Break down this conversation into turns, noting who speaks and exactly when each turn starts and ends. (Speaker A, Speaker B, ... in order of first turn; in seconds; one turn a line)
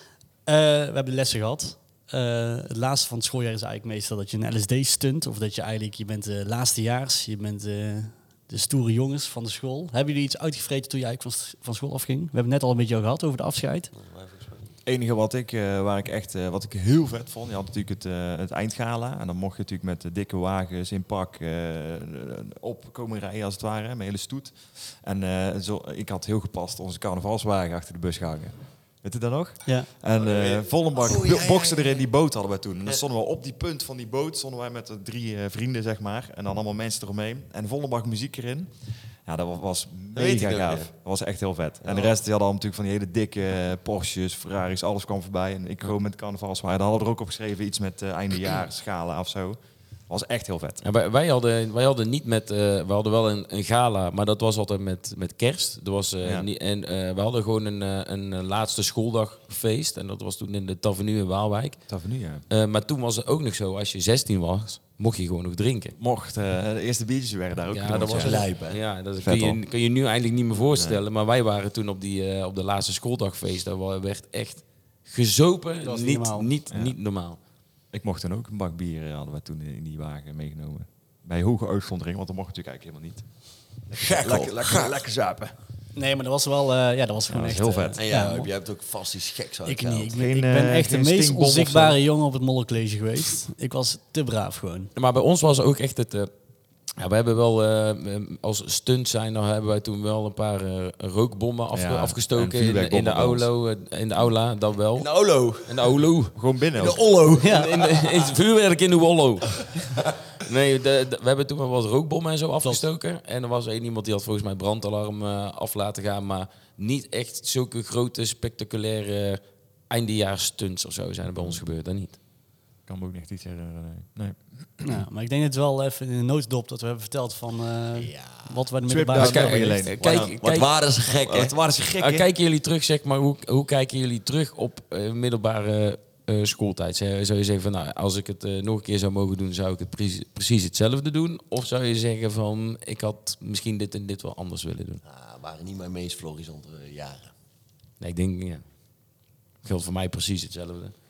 Speaker A: 0.5-13.9
Speaker B: 13.9-14.8
Speaker C: 14.9-49.6
Speaker B: 30.1-32.0
Speaker B: 40.1-40.9
Speaker B: 41.9-42.1
Speaker C: 50.1-50.8
Speaker D: 50.8-61.8
Speaker C: 56.2-56.5
Speaker C: 61.9-62.5
Speaker D: 62.5-66.0
Speaker C: 66.0-68.5
Speaker D: 67.7-77.4
Speaker B: 68.2-68.8
Speaker C: 69.2-69.6
Speaker C: 70.8-71.0
Speaker A: 75.8-76.5
Speaker C: 77.9-83.3
Speaker C: 83.9-85.5
Speaker B: 83.9-84.9
Speaker A: 86.0-88.5
Speaker C: 87.3-88.0
Speaker B: 88.0-90.2
Speaker A: 89.7-94.9
Speaker C: 90.1-92.0
Speaker D: 95.0-96.3
Speaker D: 97.0-105.1
Speaker C: 101.7-103.5
Speaker B: 105.0-105.8
Speaker D: 105.6-106.3
Speaker C: 106.3-107.0
Speaker B: 106.8-108.3
Speaker D: 107.3-109.7
Speaker A: 107.4-107.7
Speaker B: 109.8-110.1
Speaker D: 110.4-122.2
Speaker C: 122.9-125.0
Speaker A: 124.8-129.9
Speaker B: 128.0-128.6
Speaker C: 128.9-130.3
Speaker D: 129.2-130.7
Speaker B: 130.0-131.6
Speaker C: 131.1-132.3
Speaker D: 132.0-145.0
Speaker B: 145.0-147.3
Speaker D: 148.0-148.6
Speaker D: 149.6-150.9